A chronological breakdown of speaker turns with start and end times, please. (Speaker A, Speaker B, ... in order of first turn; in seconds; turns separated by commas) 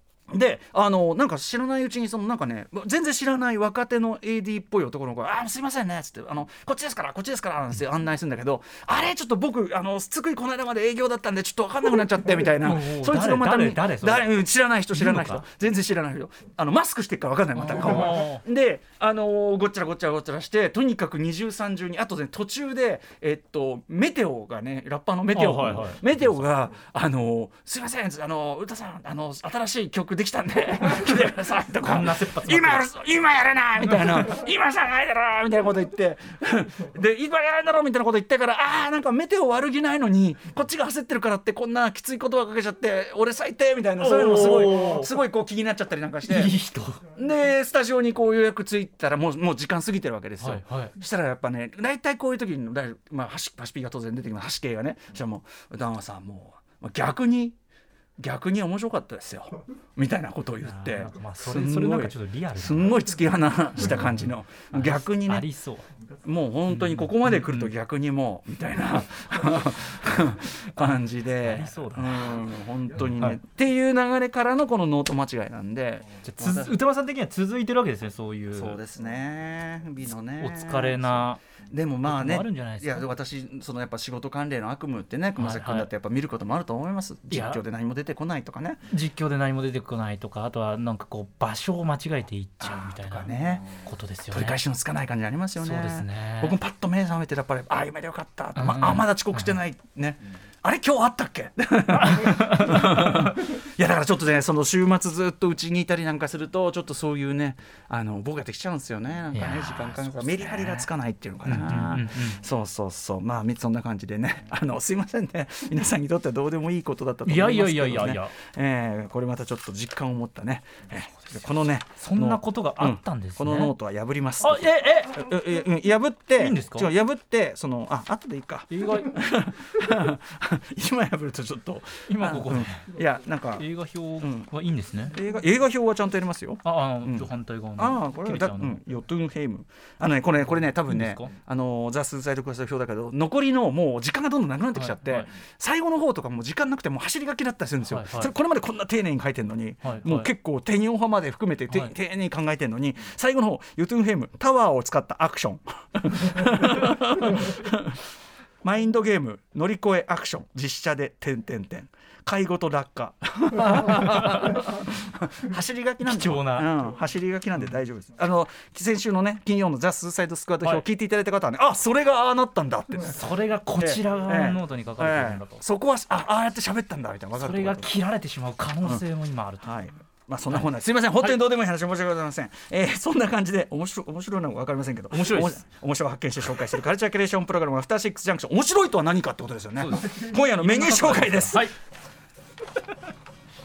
Speaker A: 0.3-46.5, Speaker B: 12.6-14.3, Speaker B: 14.9-15.4, Speaker B: 17.6-18.4, Speaker B: 25.3-26.4, Speaker B: 31.8-32.9, Speaker B: 44.0-45.1, Speaker B: 46.2-47.0, Speaker A: 47.1-57.6, Speaker B: 50.4-50.9, Speaker A: 58.2-65.5, Speaker B: 60.6-63.0, Speaker B: 64.7-65.8, Speaker A: 66.2-76.8, Speaker B: 66.7-67.7, Speaker B: 70.8-72.4, Speaker B: 73.0-73.4, Speaker B: 76.2-78.8, Speaker A: 78.5-88.8, Speaker B: 80.4-81.4, Speaker B: 82.0-83.1, Speaker B: 85.4-85.9, Speaker B: 87.3-87.6, Speaker B: 88.9-94.6, Speaker A: 92.6-93.7, Speaker A: 94.3-133.7, Speaker B: 95.6-96.6, Speaker B: 98.5-99.5, Speaker B: 102.0-103.3, Speaker B: 109.3-110.9, Speaker B: 111.5-112.4, Speaker B: 117.2-118.3, Speaker B: 122.0-123.7, Speaker B: 124.4-125.3, Speaker B: 126.4-126.9, Speaker B: 128.7-129.2, Speaker B: 132.1-132.9, Speaker B: 133.6-135.2, Speaker A: 134.2-134.5, Speaker A: 135.1-157.9, Speaker B: 136.6-138.8, Speaker B: 140.9-141.3, Speaker B: 144.7-145.3, Speaker B: 147.8-148.3, Speaker B: 149.8-150.3, Speaker A: 158.6-173.2, Speaker B: 166.0-166.7, Speaker B: 173.1-175.6, Speaker A: 173.8-177.9, Speaker B: 177.4-179.7, Speaker A: 179.6-191.7, Speaker B: 180.5-181.4, Speaker B: 185.1-185.6, Speaker B: 189.8-191.7